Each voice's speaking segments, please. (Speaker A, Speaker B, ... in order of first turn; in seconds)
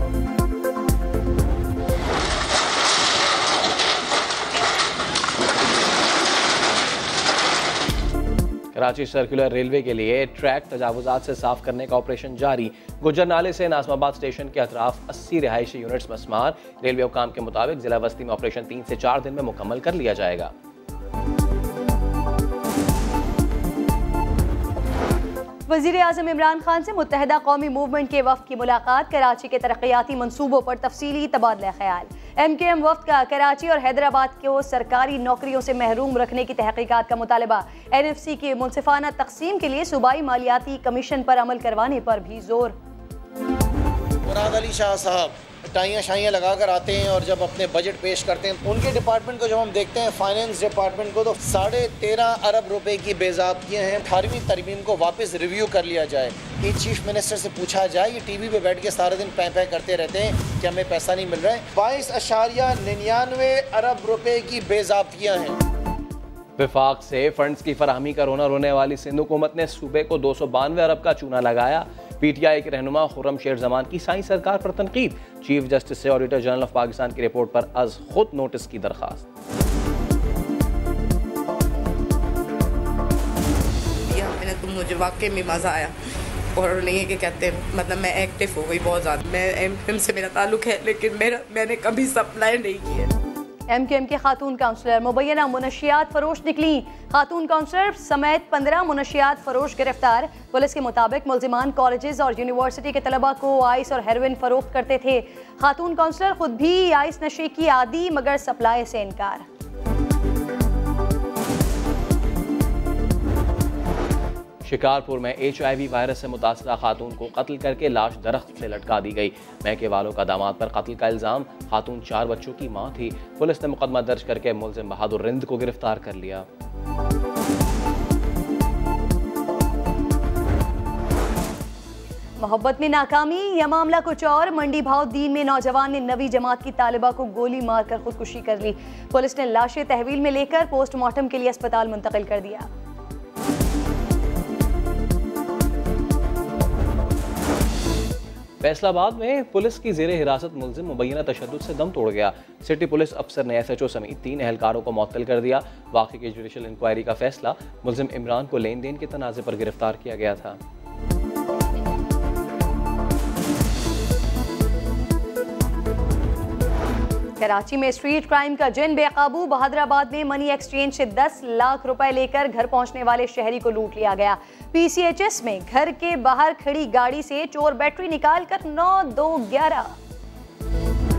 Speaker A: 8.7-20.5, 66.6-79.2, 114.6-126.5, 148.6-160.6
Speaker B: 25.7-42.7, 93.7-109.4, 132.4-142.7, 167.4-179.9
Speaker C: 44.2-65.5
Speaker D: 84.1-86.0, 86.5-93.1